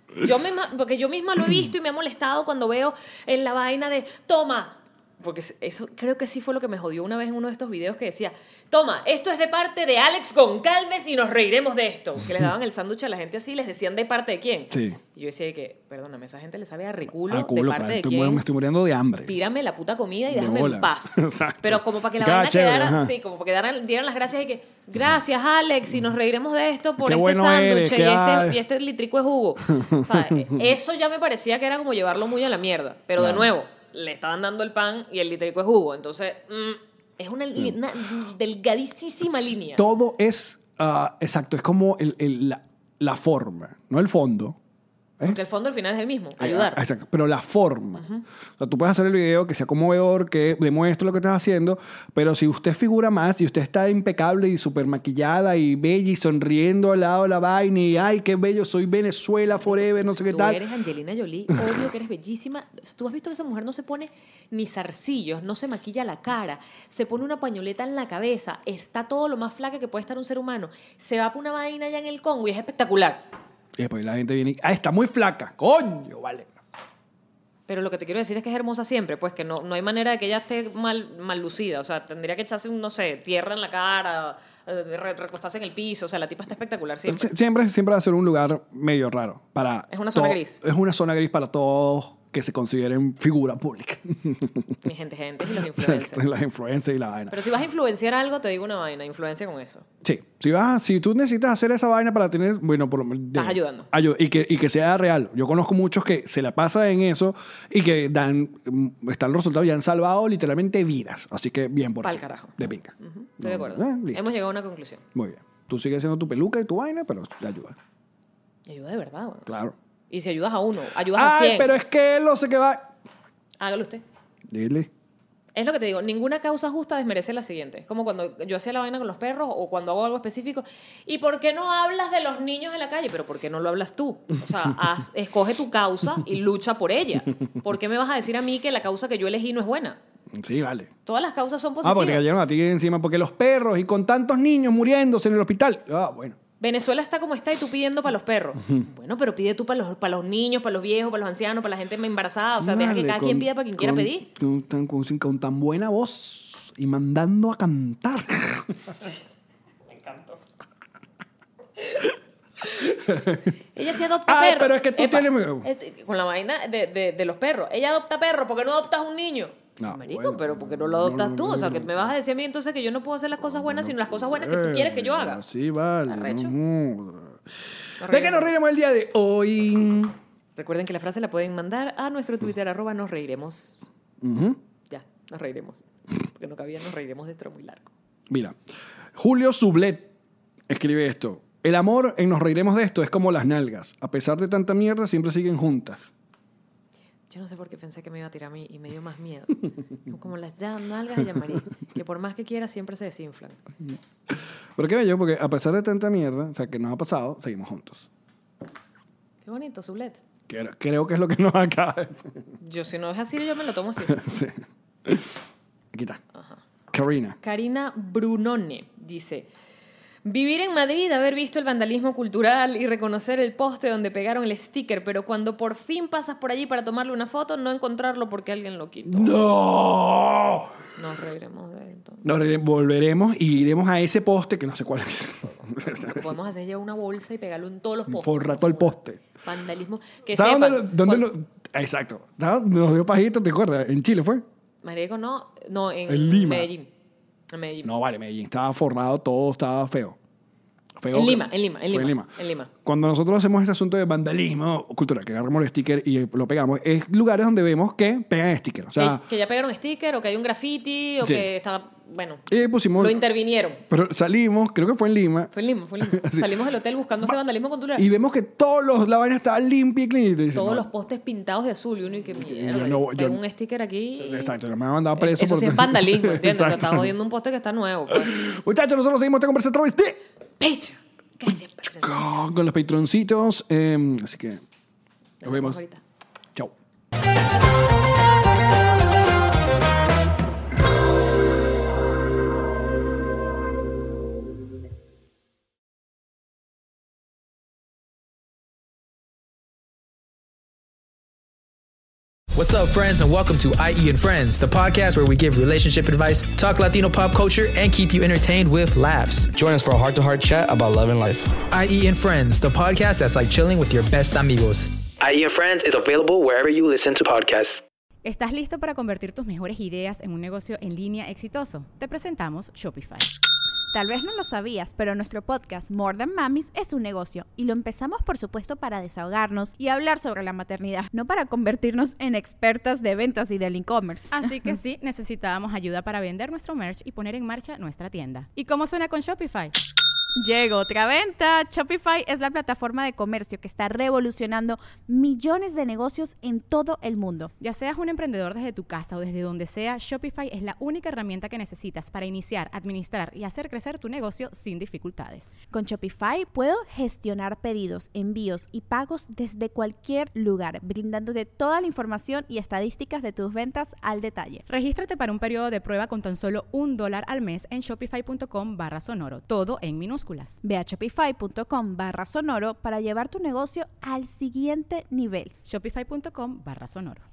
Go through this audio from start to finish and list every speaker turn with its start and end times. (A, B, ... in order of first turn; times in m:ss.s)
0:00.2-0:18.4 A
0:14.7-0:15.0 B
0:17.3-0:19.3 B
0:19.2-0:39.8 A
0:20.3-0:23.1 B
0:27.0-0:28.6 B
0:29.8-0:30.6 B
0:33.2-0:33.5 B
0:39.7-0:44.6 B
0:45.2-0:46.8 A
0:46.4-0:48.0 B
0:48.0-0:48.2 A
0:48.6-1:00.6 B
0:59.7-1:13.3 A
1:13.8-1:16.6 B
1:17.7-1:27.3 A
1:27.1-1:34.8 B
1:29.9-1:30.6 A
1:34.8-1:36.4 A
1:35.5-1:37.4 B
1:37.3-1:39.9 A
1:40.0-1:54.3 B
1:43.3-1:43.9 A
1:52.0-1:55.0 A
1:55.1-1:57.8 B
1:58.7-1:59.5 A
1:59.4-1:59.7 B
2:00.1-2:01.7 A
2:01.1-2:02.9 B
2:03.6-2:04.0 A
2:04.5-2:04.9 B
2:05.5-2:20.0 A
2:20.3-2:20.9 B
2:21.0-2:22.2 A
2:21.8-2:26.4 B
2:26.6-2:34.3 A
2:32.6-2:38.8 B
2:40.0-2:40.4 A
2:42.7-2:43.5 B
2:43.7-2:55.4 A
2:44.3-2:45.7 B
2:49.8-2:52.1 B
2:53.4-2:57.4 B
2:56.0-2:56.5 A
2:58.0-2:58.5 A
2:58.0-3:00.1 B
3:00.6-3:03.8 A
3:04.2-3:04.6 B
3:04.9-3:07.9 A
3:08.3-3:08.6 B
3:09.2-3:10.1 B
3:10.7-3:16.1 B
3:17.3-3:23.6 A
3:24.3-3:28.1 B
3:29.4-3:30.2 A
3:30.5-3:32.3 B
3:32.6-3:34.2 A
3:34.1-3:35.3 B
3:35.9-3:36.2 B
3:36.9-3:37.4 B
3:37.4-3:39.5 A
3:40.2-3:49.4 A
3:49.1-3:50.7 B
3:51.0-3:52.3 A
3:52.2-3:56.3 B
3:55.9-4:01.3 A
3:58.1-3:59.2 B
4:00.3-4:04.4 B
4:04.8-4:06.9 A
4:06.1-4:06.7 B
4:07.5-4:07.9 A
4:07.8-4:10.2 B
4:11.0-4:19.2 B
4:11.1-4:12.7 A
4:19.0-4:22.4 A
4:21.2-4:21.5 B
4:22.5-4:23.2 B
4:23.0-4:23.8 A
4:23.9-4:26.5 B
4:25.5-4:28.0 A
4:28.0-4:30.8 B
4:30.5-4:34.6 A
4:32.3-4:33.4 B
4:34.2-4:37.1 B
4:35.2-4:38.3 A
4:38.1-4:40.2 B
4:40.6-4:42.5 A
4:41.9-4:44.6 B
4:45.4-4:46.0 A
4:45.4-4:45.8 B
5:02.5-5:09.5 C
5:09.5-5:11.6 D
5:11.7-5:15.0 C
5:15.2-5:17.8 D
5:18.2-5:23.3 E
5:23.9-5:34.5 F
5:34.3-5:39.7 E
5:40.4-5:47.5 F
5:47.6-5:55.6 E
5:55.7-6:04.6 F
6:04.7-6:10.6 E
6:10.6-6:15.5 F
6:15.6-6:17.2 E